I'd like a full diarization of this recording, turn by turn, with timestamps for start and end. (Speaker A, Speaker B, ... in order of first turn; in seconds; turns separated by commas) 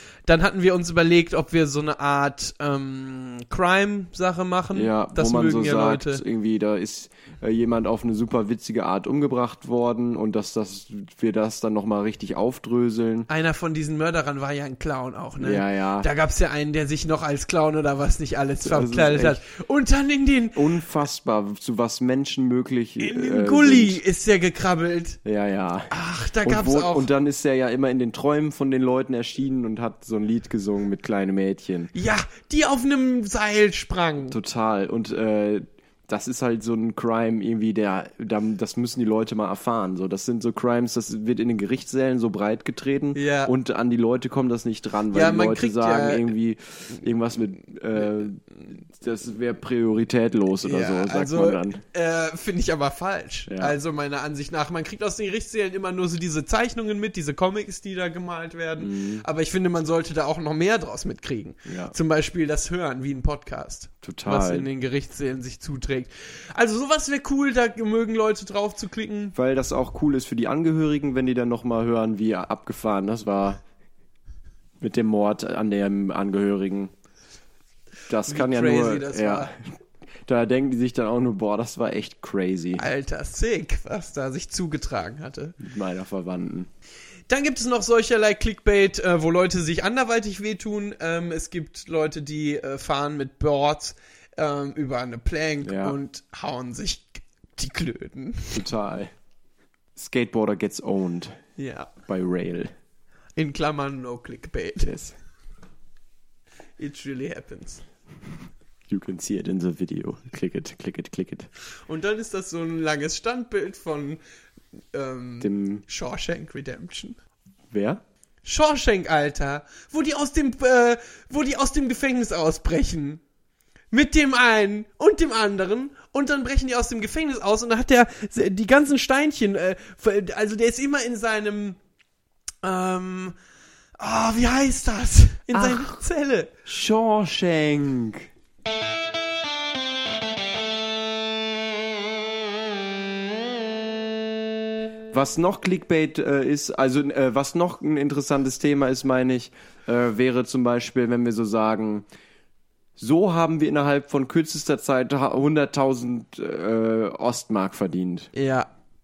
Speaker A: 0.3-6.2, Speaker B: 4.7-13.3, Speaker A: 13.3-20.6, Speaker B: 15.4-16.1, Speaker B: 18.6-19.4, Speaker B: 20.5-24.0, Speaker A: 23.0-25.2, Speaker B: 25.2-31.9, Speaker A: 25.9-27.1, Speaker A: 31.9-34.4, Speaker B: 34.3-51.8, Speaker A: 43.1-43.5, Speaker A: 45.1-46.3, Speaker A: 50.6-69.3, Speaker B: 53.5-53.8, Speaker B: 58.8-59.3, Speaker B: 61.7-62.0, Speaker B: 64.0-64.7, Speaker B: 69.3-73.6, Speaker B: 74.8-76.9, Speaker B: 78.1-82.8, Speaker A: 78.2-79.5, Speaker A: 82.8-85.6, Speaker B: 85.6-86.7, Speaker A: 87.3-98.7, Speaker B: 95.6-96.0, Speaker B: 98.5-99.1, Speaker B: 100.0-101.4, Speaker A: 101.6-101.9, Speaker B: 102.0-102.7, Speaker A: 103.4-105.0, Speaker B: 104.8-105.2, Speaker A: 106.8-107.8, Speaker B: 108.9-111.5, Speaker A: 111.9-114.2, Speaker A: 114.9-117.2, Speaker B: 115.4-115.8, Speaker B: 117.7-118.0, Speaker A: 118.4-123.2, Speaker A: 123.9-131.8, Speaker A: 132.6-133.4, Speaker A: 134.0-136.5, Speaker B: 135.5-136.0, Speaker B: 136.7-138.3, Speaker B: 145.1-152.1, Speaker B: 153.0-158.3, Speaker A: 158.3-158.7